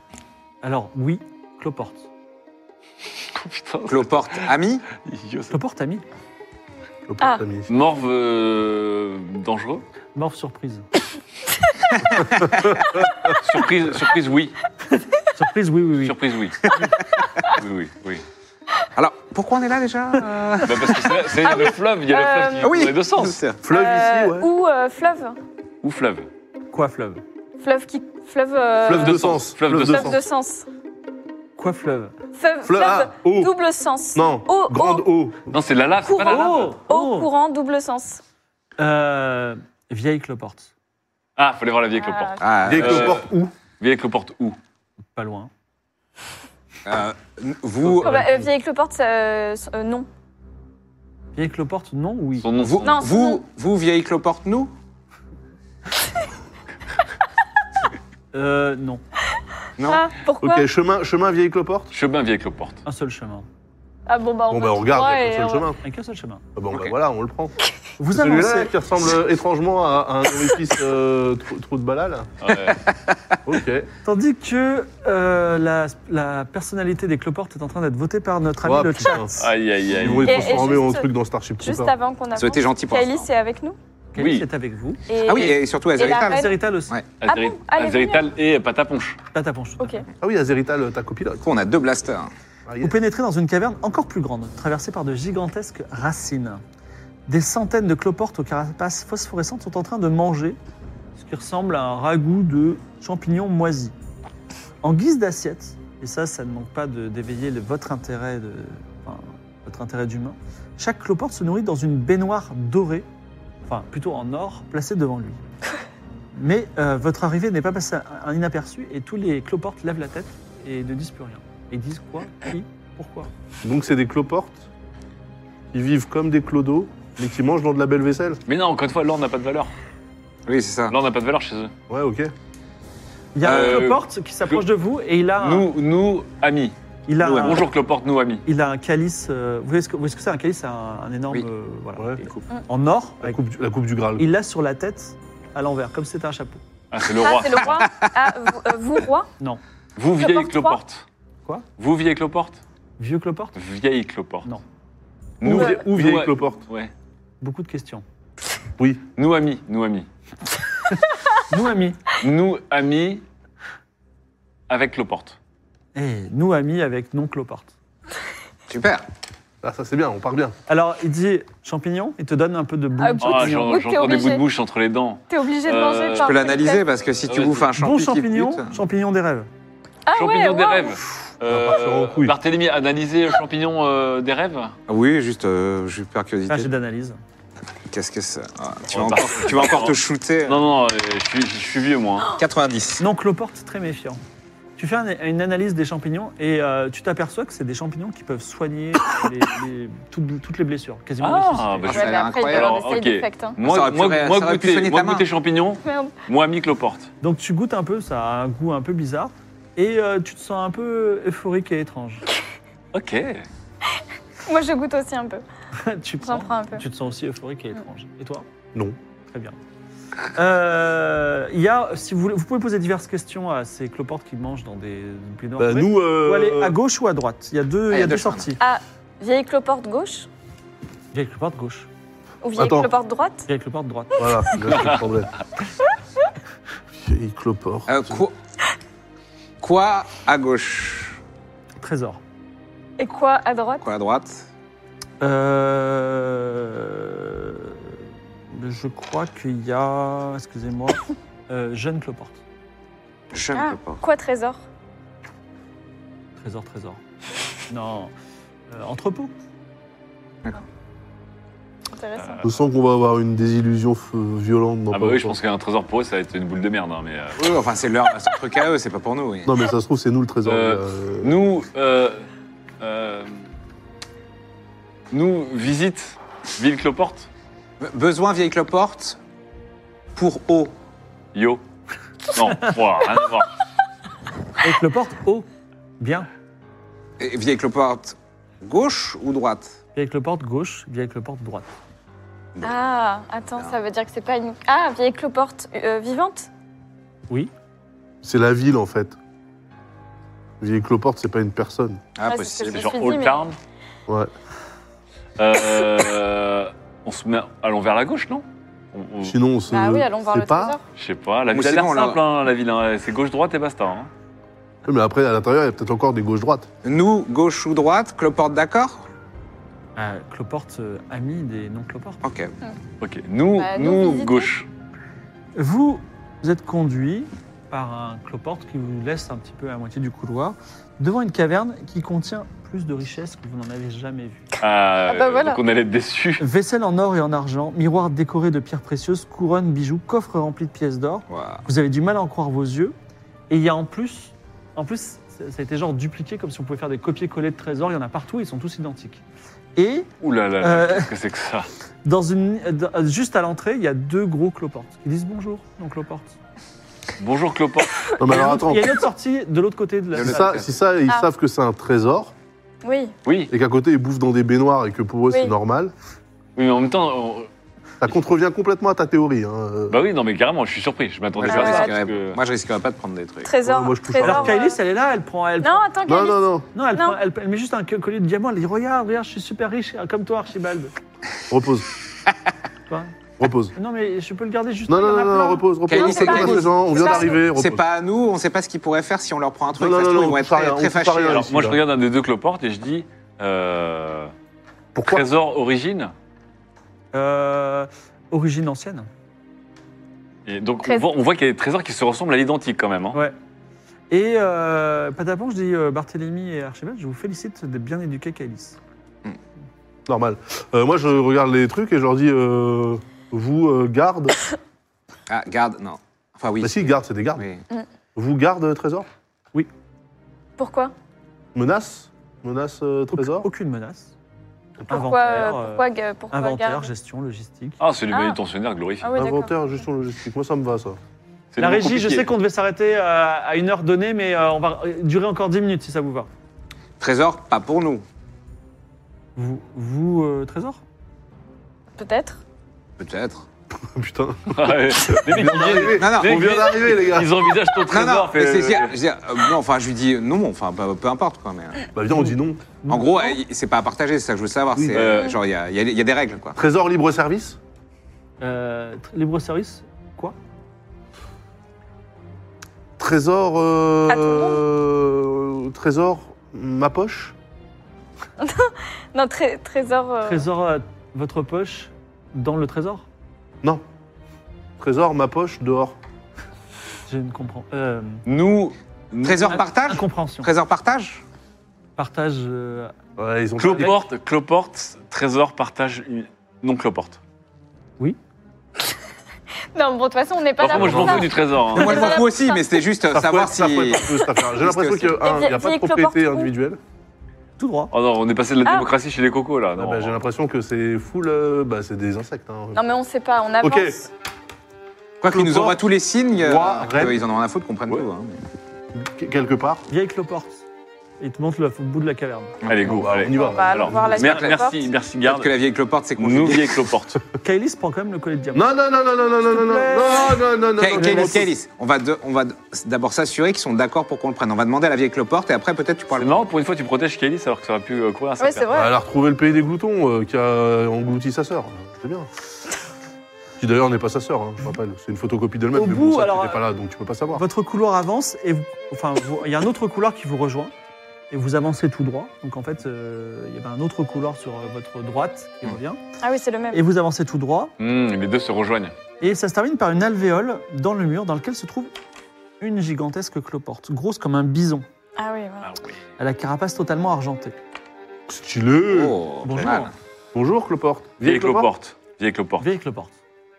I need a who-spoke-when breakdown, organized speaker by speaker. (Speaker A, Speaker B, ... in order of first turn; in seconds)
Speaker A: 0.6-2.1, 5.5-6.0, 10.1-10.8, 15.3-16.1, 26.7-27.2, 31.6-32.2, 36.2-37.3, 38.8-40.7, 45.1-45.5, 51.3-52.5, 58.3-59.0, 62.8-63.5, 65.8-66.4, 68.0-68.7, 74.0-79.5, 84.1-85.5, 86.0-86.9, 89.3-90.0, 92.8-96.6, 97.3-100.6, 101.2-103.9, 104.8-113.0, 113.7-115.4, 116.3-123.3, 133.3-135.7, 137.1-137.7, 138.4-143.4, 144.2-146.6, 153.0-153.5, 157.4-158.0, 161.5-162.0, 165.9-167.7, 170.7-173.8, 177.8-179.5, 186.5-187.2, 193.0-194.2, 194.8-202.1, 207.2-212.2, 215.8-218.4, 219.3-219.6, 220.3-228.6, 231.1-231.9, 233.5-234.5, 241.8-242.2, 245.2-247.9, 248.5-252.4, 256.4-257.0, 257.7-258.1, 258.7-259.3, 284.6-285.5, 286.0-286.3, 289.9-291.7, 319.9-322.2, 325.6-334.5, 336.4-342.9, 343.5-349.2, 349.8-350.1, 350.6-351.1, 352.0-356.4, 358.3-360.6, 374.2-375.9, 376.7-380.9, 383.7-385.7, 397.1-399.1, 404.1-408.8, 423.1-424.1, 424.9-427.8, 431.6-436.3, 439.4-440.8, 452.8-453.4, 458.4-460.4, 470.2-473.1, 477.1-478.2, 479.5-480.5, 482.0-482.9, 483.7-483.9, 497.6-497.9, 509.9-510.6, 511.2-512.5, 517.4-518.7, 519.4-520.4, 521.0-521.4, 535.7-536.6, 537.3-540.7, 541.3-546.0, 546.7-547.7, 549.2-551.9, 552.6-554.9, 556.2-557.5, 559.4-559.9, 562.6-563.1
Speaker B: 3.3-4.5, 5.0-5.5, 7.7-9.8, 13.4-14.6, 16.0-16.7, 17.5-18.2, 20.6-23.4, 25.8-26.3, 28.9-30.1, 35.5-36.8, 41.4-43.3, 43.8-44.6, 52.4-53.0, 61.9-62.8, 72.4-72.8, 79.4-80.7, 84.2-84.5, 87.2-89.2, 128.5-129.7, 130.9-131.7, 133.4-134.6, 135.4-136.7, 137.3-138.4, 146.9-147.9, 150.0-151.0, 151.8-152.6, 153.5-154.5, 155.4-156.9, 159.2-160.1, 162.2-163.2, 164.7-165.4, 173.2-176.4, 177.2-177.7, 180.1-184.8, 188.9-192.3, 201.2-207.1, 212.9-213.4, 262.2-262.5, 264.9-267.4, 270.4-272.2, 272.8-273.4, 275.1-277.3, 281.3-281.6, 282.3-283.6, 302.7-303.6, 305.4-309.4, 310.9-314.1, 323.0-324.7, 334.6-336.4, 350.2-351.7, 357.2-358.1, 363.2-363.5, 366.6-367.5, 369.9-372.4, 391.3-394.3, 395.0-396.1, 400.4-403.2, 427.8-429.1, 431.5-432.3, 444.5-449.0, 454.9-455.4, 479.1-479.6, 483.6-487.2, 490.6-492.2, 497.9-500.2, 512.6-515.5, 516.2-517.2, 526.1-528.7, 547.8-548.9, 555.6-556.0, 561.2-562.7
Speaker C: 3.9-4.8, 12.1-12.8, 16.7-17.2, 18.9-21.6, 22.6-23.6, 42.4-43.2, 46.8-48.2, 52.6-54.7, 59.8-60.1, 72.7-73.2, 82.3-83.3, 85.2-87.1, 91.4-92.3, 130.5-130.9, 133.4-133.9, 137.2-137.6, 147.6-148.1, 168.7-169.0, 176.2-178.8, 184.9-186.7, 187.9-190.6, 192.4-193.0, 201.9-202.9, 203.6-205.2, 227.9-228.5, 237.9-238.3, 239.6-241.2, 243.8-244.4, 253.3-254.0, 267.4-269.6, 277.8-279.2, 280.1-280.7, 287.2-289.8, 302.2-302.9, 311.5-312.2, 316.8-319.0, 322.2-322.5, 341.3-341.6, 360.1-360.8, 371.4-373.6, 385.9-391.4, 415.3-417.6, 437.0-438.0, 443.0-443.4, 446.0-446.6, 447.9-451.8, 452.9-456.6, 478.3-481.2, 491.7-494.0, 494.6-495.1, 505.2-508.4, 512.6-512.9, 514.1-514.7, 515.2-516.8, 520.8-526.4, 558.9-559.9
Speaker D: 7.1-7.7, 23.6-24.5, 28.8-30.2, 32.6-33.5, 34.1-35.5, 42.6-43.5, 60.4-61.9, 64.5-65.8, 66.5-67.5, 68.1-72.5, 73.4-73.9, 78.6-79.3, 79.9-81.9, 90.2-91.4, 92.7-93.0, 123.6-124.7, 125.7-128.4, 131.9-132.3, 142.0-142.2, 143.2-144.3, 155.4-156.6, 158.8-159.0, 169.6-170.5, 181.5-182.3, 225.6-226.8, 232.6-232.9, 234.2-235.3, 236.9-238.2, 262.4-265.4, 269.4-271.4, 298.2-299.2, 300.6-302.0, 309.2-310.8, 314.8-316.7, 358.2-359.0, 360.2-362.3, 363.5-365.9, 368.0-370.0, 373.6-374.6, 376.1-376.6, 381.5-381.9, 383.4-383.7, 384.9-387.8, 389.7-391.8, 394.9-395.2, 410.1-414.4, 416.6-417.5, 418.1-419.1, 421.5-423.4, 429.1-431.0, 443.7-447.6, 451.9-452.6, 454.7-455.1, 456.6-457.6, 463.0-467.3, 474.8-476.0, 483.2-484.0, 490.7-491.3, 493.1-496.8, 499.8-502.8, 503.6-504.0, 505.2-505.8, 506.3-507.2, 508.9-509.9, 512.8-514.2, 518.5-521.5, 528.7-532.3, 533.6-537.4, 558.3-559.7, 560.3-561.7
Speaker E: 21.4-22.7, 23.7-25.4, 27.6-30.7, 32.3-35.0, 36.0-38.2, 42.0-42.4, 48.0-50.1, 52.8-53.4, 59.9-60.6, 64.1-65.7, 80.2-81.1, 81.6-83.8, 85.1-86.5, 87.2-88.2, 89.8-90.0, 147.2-149.3, 150.2-150.8, 155.5-155.8, 173.0-174.4, 175.3-176.8, 180.1-181.0, 201.9-203.6, 205.8-206.1, 214.4-215.4, 216.2-216.8, 228.6-230.3, 232.4-233.5, 243.0-243.8, 253.5-254.6, 261.9-262.4, 292.6-296.5, 302.2-303.5, 309.7-310.8, 323.6-324.5, 335.1-335.6, 362.8-363.1, 371.5-371.9, 373.4-374.8, 375.6-377.2, 386.0-387.4, 420.6-420.9, 424.9-426.9, 428.1-428.4, 429.0-429.5, 442.0-442.4, 464.1-464.6, 468.4-470.5, 489.7-492.7, 495.1-496.5, 498.6-498.9, 502.7-504.1, 513.3-514.9, 528.4-528.9, 546.2-546.8, 555.2-555.7